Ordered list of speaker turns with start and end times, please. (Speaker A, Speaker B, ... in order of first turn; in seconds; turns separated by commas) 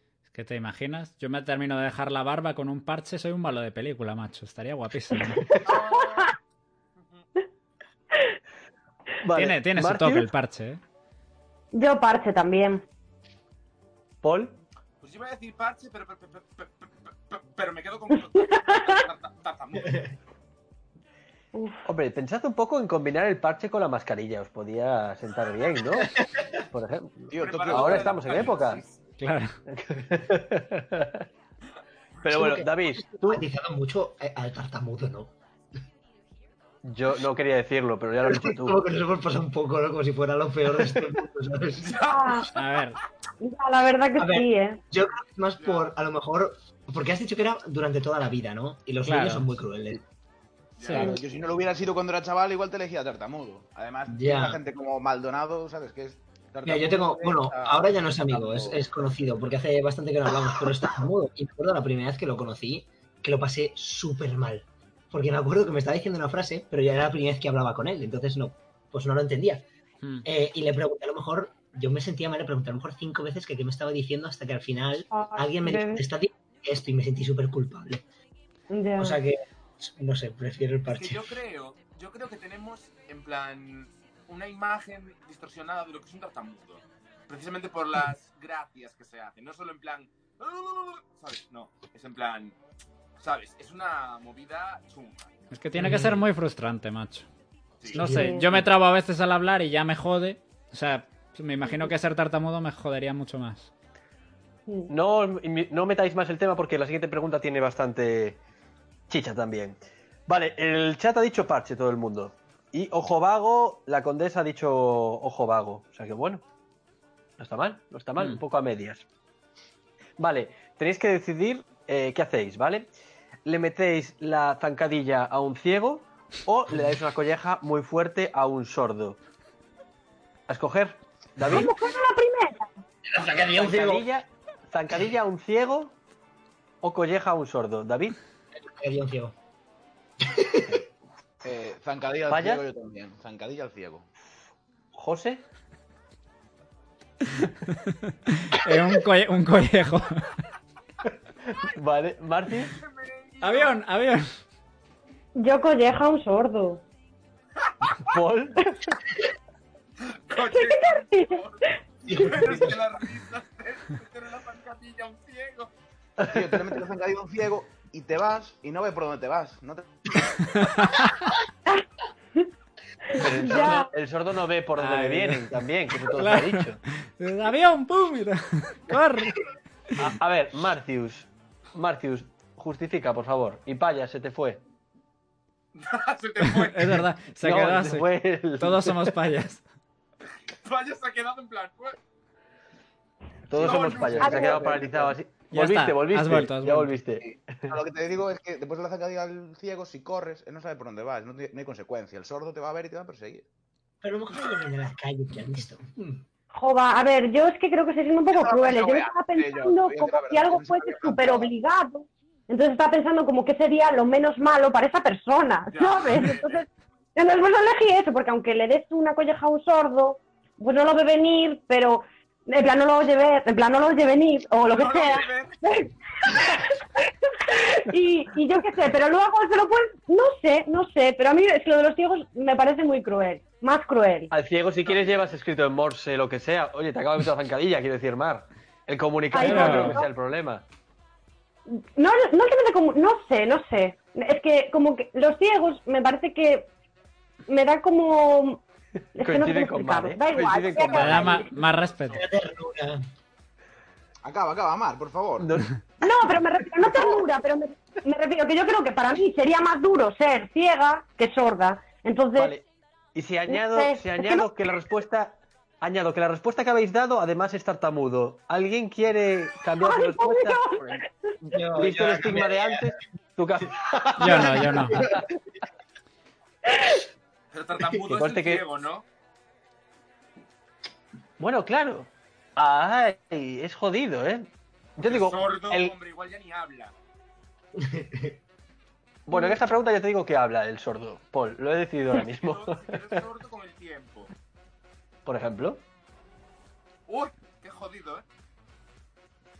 Speaker A: 0.3-5.6, Speaker B: 5.5-6.3, Speaker C: 5.6-6.4, Speaker C: 7.0-7.2, Speaker D: 9.2-10.3, Speaker A: 9.3-10.8, Speaker B: 11.7-12.8, Speaker D: 14.2-14.6, Speaker C: 15.0-20.1, Speaker B: 18.3-19.0, Speaker B: 21.5-21.8, Speaker D: 21.8-28.8, Speaker E: 26.0-26.4, Speaker F: 27.3-28.5, Speaker C: 27.3-29.0, Speaker A: 29.2-29.6, Speaker D: 29.7-31.2, Speaker D: 32.2-33.4, Speaker E: 32.3-35.3, Speaker D: 36.8-38.8, Speaker E: 38.2-42.0, Speaker C: 41.8-42.7, Speaker B: 42.1-42.5, Speaker A: 42.5-43.0, Speaker B: 43.4-44.8, Speaker E: 44.2-50.0, Speaker C: 45.6-45.9, Speaker A: 49.0-49.5, Speaker C: 50.8-51.1, Speaker A: 50.8-51.1, Speaker F: 50.9-58.9, Speaker B: 50.9-51.2, Speaker E: 54.1-54.6, Speaker E: 56.6-69.7, Speaker E: 70.2-78.0, Speaker B: 75.1-76.0, Speaker B: 78.7-79.2, Speaker E: 79.0-81.4, Speaker C: 80.9-92.5, Speaker C: 93.2-95.3, Speaker A: 95.5-97.3, Speaker E: 95.8-96.2, Speaker C: 97.8-98.1, Speaker E: 97.9-98.7, Speaker A: 97.9-103.7, Speaker B: 98.1-98.5, Speaker D: 104.9-108.4, Speaker D: 109.1-116.4, Speaker D: 117.4-119.0, Speaker D: 120.2-122.9, Speaker D: 123.4-129.2, Speaker D: 130.5-131.7, Speaker B: 131.5-132.7, Speaker E: 133.1-134.1, Speaker D: 133.5-135.9, Speaker D: 136.8-138.2, Speaker E: 138.6-139.3, Speaker E: 140.2-140.8, Speaker F: 141.4-144.1, Speaker D: 142.3-142.6, Speaker D: 144.9-145.4, Speaker A: 147.3-150.4, Speaker D: 151.0-152.8, Speaker C: 152.6-153.8, Speaker A: 153.4-154.3, Speaker B: 155.3-156.8, Speaker C: 157.7-158.0, Speaker D: 158.0-158.8, Speaker C: 160.0-165.7, Speaker B: 160.5-162.3, Speaker E: 162.1-162.8, Speaker D: 166.2-166.6, Speaker F: 166.2-170.7, Speaker A: 170.5-171.3, Speaker B: 173.1-173.9, Speaker D: 173.1-176.8, Speaker A: 174.8-179.4, Speaker D: 179.9-184.6, Speaker C: 185.7-187.0, Speaker A: 186.4-188.1, Speaker D: 187.4-189.1, Speaker A: 188.6-189.6, Speaker C: 190.6-192.0, Speaker D: 193.5-197.7, Speaker C: 193.5-194.8, Speaker F: 193.6-194.2, Speaker B: 194.2-194.6, Speaker F: 194.7-195.0, Speaker A: 195.5-197.0, Speaker F: 197.2-203.4, Speaker E: 204.0-206.2, Speaker B: 206.5-234.3, Speaker F: 208.3-211.5, Speaker C: 215.7-216.6, Speaker C: 224.7-225.6, Speaker D: 234.3-240.6, Speaker C: 234.8-235.2, Speaker B: 239.3-240.1, Speaker A: 239.3-240.0, Speaker B: 241.7-246.7, Speaker B: 247.5-248.6, Speaker D: 249.2-251.5, Speaker B: 249.2-251.5, Speaker C: 250.8-252.2, Speaker A: 250.9-252.2, Speaker E: 252.1-253.0, Speaker F: 254.2-255.5, Speaker D: 255.4-256.1, Speaker B: 256.0-262.5, Speaker D: 262.4-275.3, Speaker B: 263.5-264.4, Speaker B: 269.8-271.1, Speaker E: 271.5-272.9, Speaker A: 274.2-275.1, Speaker E: 274.6-275.2, Speaker B: 276.7-277.0, Speaker C: 277.5-279.0, Speaker D: 278.1-278.6, Speaker D: 281.4-285.9, Speaker C: 285.0-286.9, Speaker E: 287.7-288.4, Speaker D: 289.2-293.2, Speaker C: 292.1-294.3, Speaker D: 295.2-295.8, Speaker C: 297.1-298.2